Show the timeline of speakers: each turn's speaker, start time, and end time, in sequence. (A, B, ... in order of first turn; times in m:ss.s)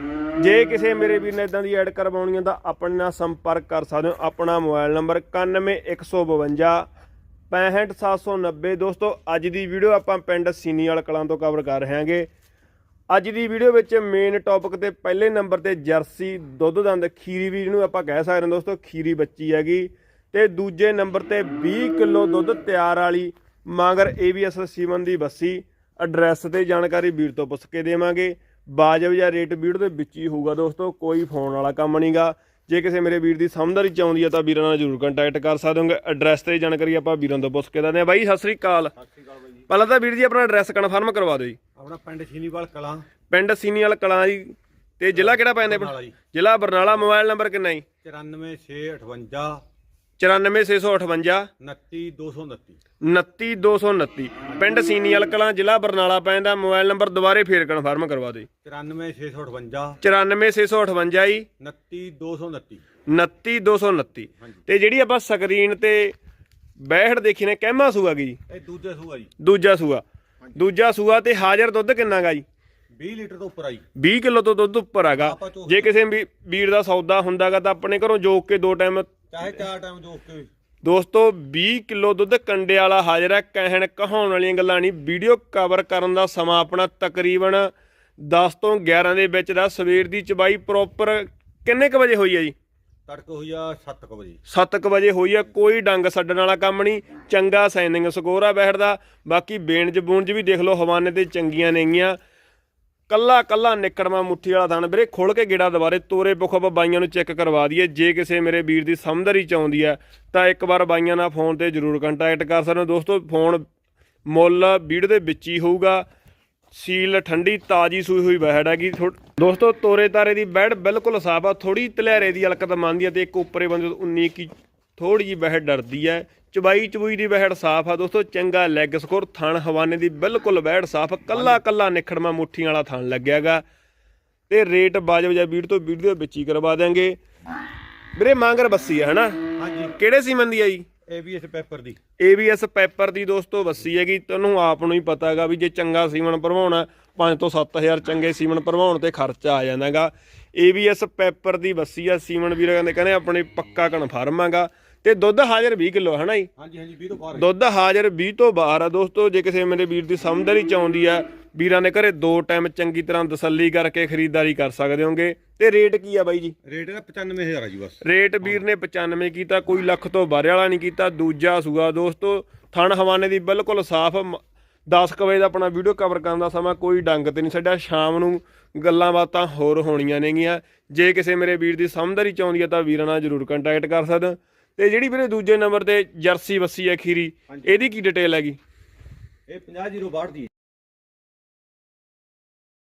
0:00.4-0:06.9 A
0:07.5-0:12.3 A
0:13.1-0:38.9 A
0:39.0-0:39.6 B
0:39.7-0:41.6 A
0:41.8-0:43.0 B
0:43.3-0:47.8 A
0:45.1-0:46.2 B
0:48.0-0:49.6 B
0:50.2-0:51.5 A
0:51.6-0:52.8 B
0:53.0-0:58.5 A
0:58.6-1:00.0 B
1:00.0-1:01.4 A
1:01.6-1:02.8 B
1:03.1-1:06.1 A
1:06.8-1:08.4 A
1:08.5-1:09.3 B
1:09.4-1:10.0 A
1:10.6-1:12.4 A
1:13.0-1:13.8 B
1:14.0-1:19.1 A
1:15.2-1:16.0 B
1:19.3-1:20.5 B
1:20.8-1:32.5 A
1:33.1-1:34.4 B
1:34.5-1:42.2 A
1:43.1-1:53.6 A
1:54.2-1:56.0 A
1:56.7-2:13.6 A
2:11.3-2:11.6 B
2:14.5-2:17.2 A
2:18.2-2:20.8 A
2:19.6-2:19.9 B
2:21.1-2:22.0 B
2:22.2-2:36.5 A
2:36.6-2:37.5 B
2:37.3-2:46.5 A
2:46.6-2:48.0 B
2:48.0-3:08.6 A
3:07.5-3:07.8 B
3:09.5-3:10.5 B